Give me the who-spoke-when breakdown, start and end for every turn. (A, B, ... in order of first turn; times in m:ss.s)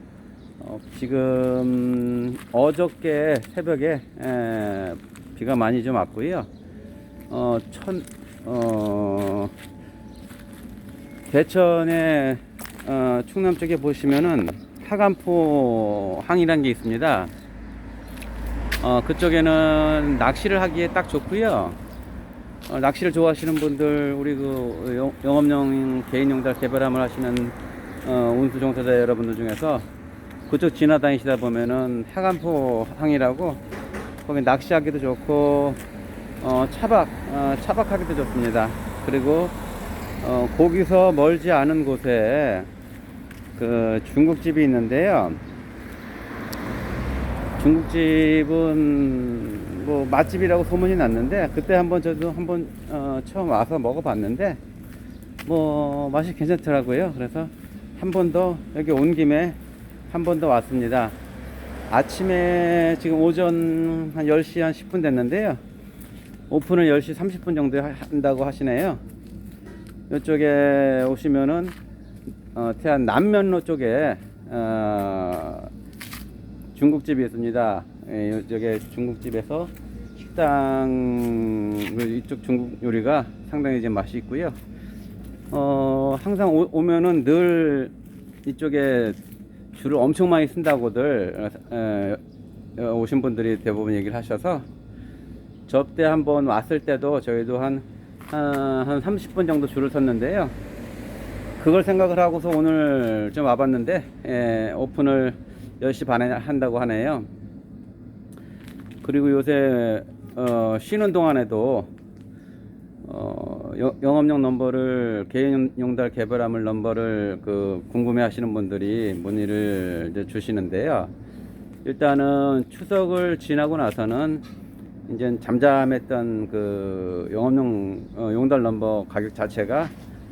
0:00.6-0:06.5 A
0:07.3-0:09.5 A
0:11.3-0:17.3 A
0:18.8-0:21.8 A
0:22.7-0:29.9 A
0:30.5-0:33.6 A
0:34.2-0:35.8 A
0:36.4-0:39.5 A
0:40.2-0:42.7 A
0:43.6-0:45.4 A
0:47.6-0:54.6 A
0:55.4-0:59.6 A
1:00.1-1:01.1 A
1:01.9-1:05.6 A
1:06.5-1:09.0 A
1:10.1-1:11.8 A
1:12.5-1:15.7 A
1:16.7-1:24.5 A
1:25.5-1:27.9 A
1:28.4-1:29.2 A
1:29.7-1:32.2 A
1:32.8-1:34.6 A
1:35.7-1:40.5 A
1:41.6-1:47.3 A
1:49.0-1:51.9 A
1:53.0-2:01.1 A
2:01.8-2:04.4 A
2:05.1-2:09.9 A